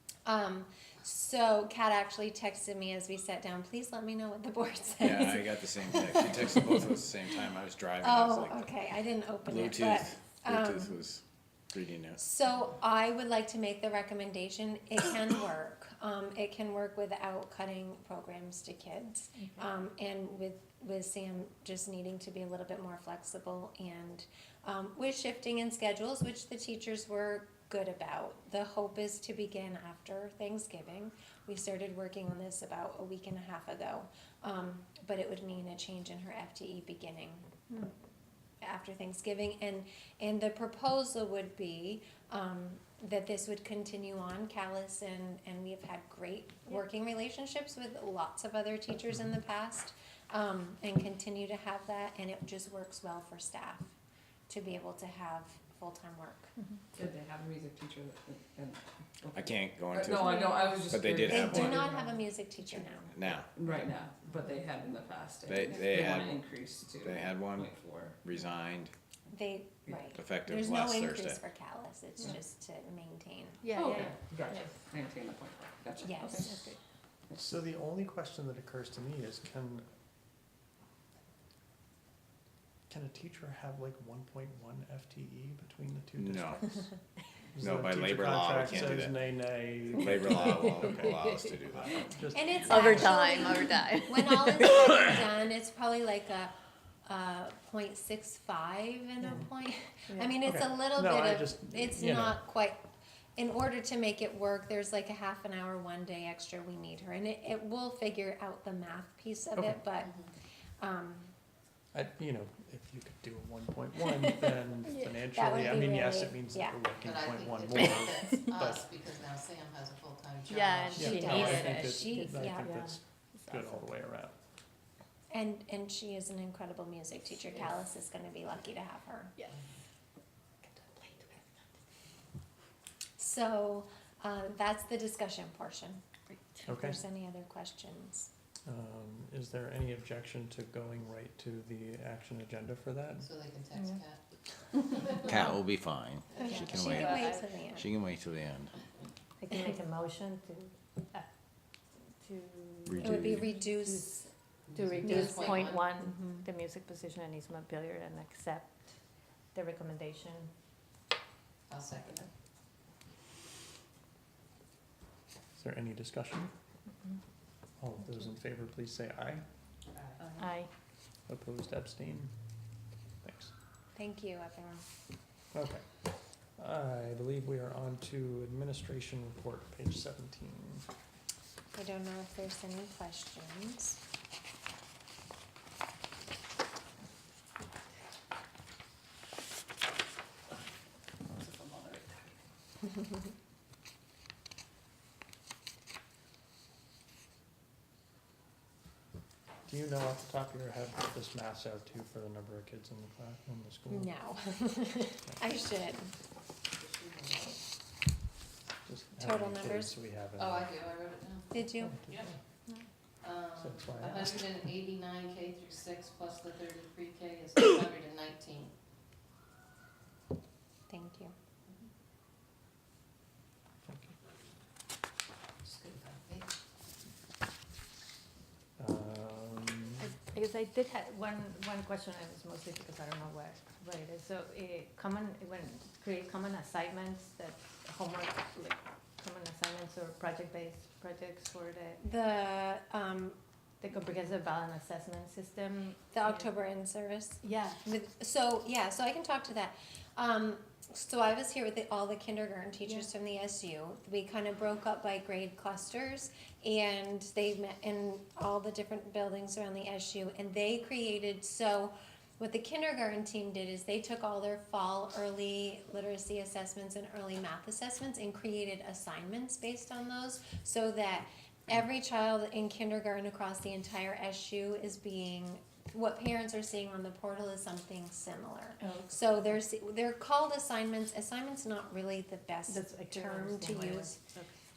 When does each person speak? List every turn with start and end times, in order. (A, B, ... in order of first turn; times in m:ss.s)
0:00.2-0:07.0 A
0:05.0-0:08.7 B
0:08.0-0:11.0 A
0:09.4-0:12.2 B
0:12.2-0:37.5 A
0:38.6-0:53.9 A
0:54.5-0:56.5 A
0:56.9-1:02.2 C
0:59.3-1:01.8 B
1:01.2-1:03.4 A
1:03.1-1:03.5 B
1:03.5-1:08.2 C
1:05.4-1:08.9 B
1:09.3-1:13.6 A
1:10.1-1:11.4 B
1:13.6-1:14.7 D
1:13.7-1:16.6 C
1:16.0-1:16.6 A
1:16.3-1:16.8 D
1:17.3-1:19.9 E
1:22.9-1:26.9 E
1:26.2-1:26.6 B
1:27.5-1:31.2 E
1:27.6-1:29.1 B
1:29.9-1:32.0 B
1:30.2-1:31.3 D
1:31.9-1:33.2 E
1:32.3-1:36.5 A
1:32.6-1:34.5 D
1:37.0-1:42.8 A
1:40.4-1:42.4 E
1:43.4-1:50.2 A
1:50.8-1:51.3 A
1:51.9-1:58.8 E
1:55.3-1:56.8 A
1:57.0-2:01.2 F
2:00.5-2:03.8 D
2:01.0-2:04.4 E
2:01.0-2:02.7 A
2:05.3-2:09.3 A
2:10.6-2:11.4 D
2:13.2-2:16.0 A
2:16.6-2:18.3 A
2:16.6-2:17.0 E
2:18.6-2:23.3 E
2:23.2-2:24.2 F
2:23.8-2:24.0 D
2:24.8-2:25.2 F
2:25.2-2:28.7 B
2:26.3-2:27.6 D
2:26.4-2:27.8 A
2:29.4-2:31.3 D
2:32.2-2:38.9 D
2:32.9-2:33.5 B
2:33.0-2:34.3 A
2:34.7-2:35.9 F
2:35.1-2:35.5 A
2:39.5-2:40.5 D
2:41.7-2:42.3 F
2:45.6-2:46.5 E
2:47.8-2:49.4 E
2:50.2-2:50.5 F
2:50.4-2:50.7 D
2:51.3-2:52.3 E
2:53.2-2:53.5 E
2:53.9-2:54.8 A
2:55.5-3:00.9 E
3:01.7-3:04.0 A
3:11.2-3:12.4 C
3:19.7-3:24.2 E
3:23.9-3:26.1 A
3:26.8-3:27.5 F
3:28.8-3:30.8 E
3:29.2-3:29.9 A
3:30.4-3:31.5 F
3:31.5-3:31.9 A
3:31.7-3:32.3 E
3:33.2-3:38.7 F
3:33.6-3:34.7 E
3:40.9-3:41.3 A
3:43.8-3:44.1 E
3:45.6-3:46.5 F
3:48.8-3:50.0 E
3:50.0-4:02.0 D
4:02.0-4:03.4 A
4:03.8-4:06.5 D
4:06.1-4:44.2 A
4:07.4-4:07.8 D
4:38.8-4:39.5 D
4:42.7-4:44.5 D